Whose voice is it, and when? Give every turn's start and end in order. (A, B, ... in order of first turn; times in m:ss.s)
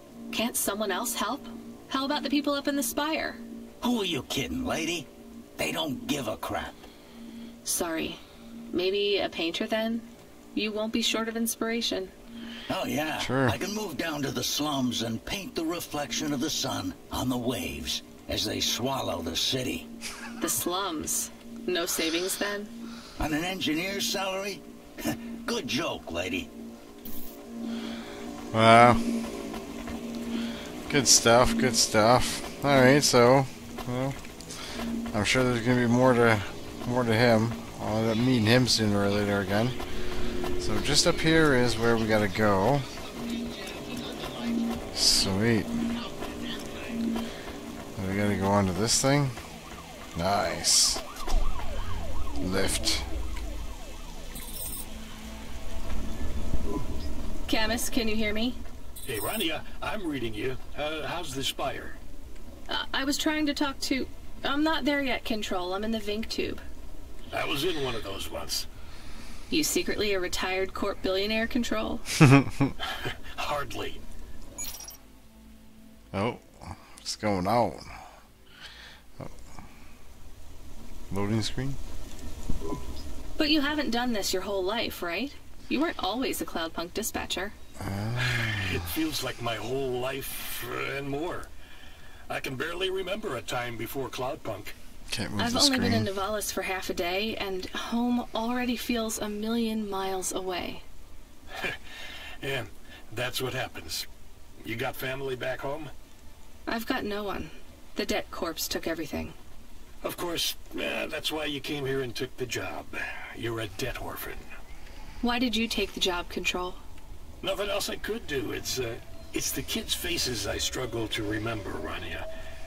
0:00.3-0:03.4 A
0:03.8-0:06.8 B
0:07.6-0:12.1 A
0:12.7-0:19.9 B
0:13.2-0:13.6 C
0:20.4-0:22.7 A
0:23.2-0:26.5 B
0:28.5-0:29.0 C
0:30.9-0:34.2 C
0:35.1-0:39.8 C
0:40.6-0:42.9 C
0:44.9-0:45.8 C
0:48.0-0:49.4 C
0:50.1-0:51.0 C
0:52.4-0:53.1 C
0:57.5-0:58.6 A
0:59.0-1:02.0 D
1:02.7-1:06.6 A
1:07.3-1:08.7 D
1:09.5-1:12.1 A
1:12.2-1:12.7 C
1:12.9-1:14.0 D
1:16.1-1:18.0 C
1:21.1-1:21.8 C
1:23.4-1:27.5 A
1:27.8-1:28.9 C
1:28.2-1:31.5 D
1:32.3-1:34.7 D
1:35.1-1:36.1 C
1:35.4-1:40.8 A
1:42.4-1:44.1 D
1:44.6-1:45.9 D
1:46.7-1:49.4 A
1:50.0-1:54.4 D
1:55.2-1:56.8 A
1:57.4-2:02.2 D